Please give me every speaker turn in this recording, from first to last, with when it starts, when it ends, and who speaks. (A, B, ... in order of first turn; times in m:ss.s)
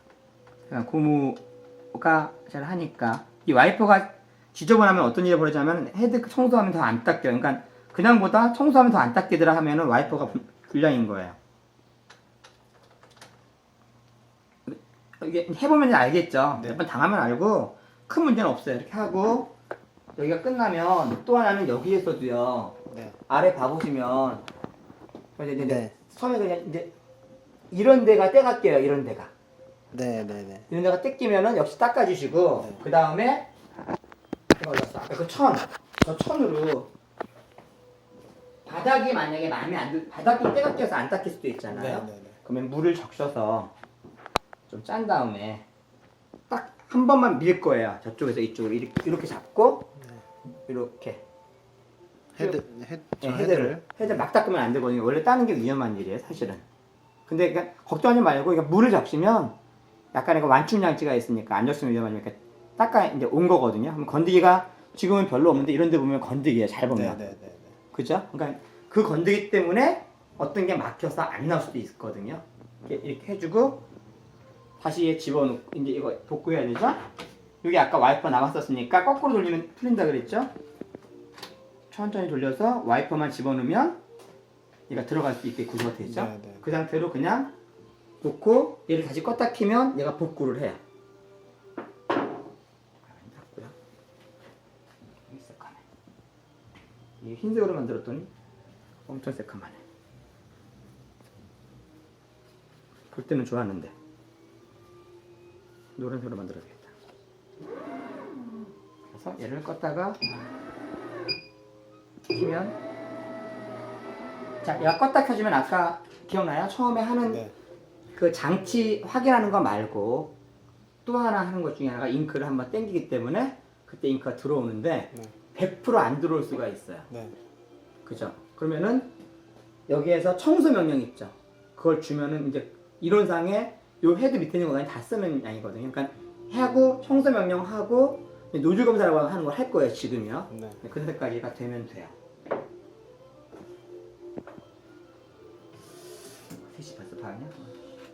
0:00.7-0:01.4 A
0:01.9-0:11.4 A
0:14.7-0:19.5 A
0:16.6-0:16.8 B
0:20.2-0:24.4 A
0:22.9-0:23.2 B
0:25.4-0:26.9 A
0:25.6-0:25.9 B
0:27.7-0:29.3 A
0:29.9-0:30.7 B
0:30.7-0:33.5 A
0:34.6-0:36.9 A
0:38.7-0:43.7 A
0:41.7-0:42.4 B
0:44.7-0:45.6 A
0:46.5-0:49.9 A
0:50.7-0:51.2 A
0:52.4-0:52.6 A
0:52.4-0:54.0 B
0:53.2-0:56.6 A
0:57.3-0:59.6 A
1:00.1-1:07.2 A
1:06.9-1:07.8 B
1:07.9-1:13.8 A
1:14.8-1:17.0 A
1:17.6-1:20.5 A
1:21.9-1:24.0 A
1:24.9-1:27.5 A
1:26.0-1:26.6 B
1:28.2-1:30.8 A
1:33.0-1:33.8 A
1:35.3-1:35.8 A
1:37.2-1:38.3 A
1:39.1-1:39.8 A
1:43.1-1:43.9 A
1:46.0-1:46.9 A
1:49.1-1:50.2 A
1:52.3-1:52.8 A
1:54.6-1:57.4 A
1:57.3-1:57.5 B
1:58.2-2:00.3 A
2:01.0-2:07.1 A
2:07.1-2:07.4 B
2:08.0-2:09.1 A
2:09.9-2:22.1 A
2:20.5-2:20.8 B
2:26.7-2:27.7 A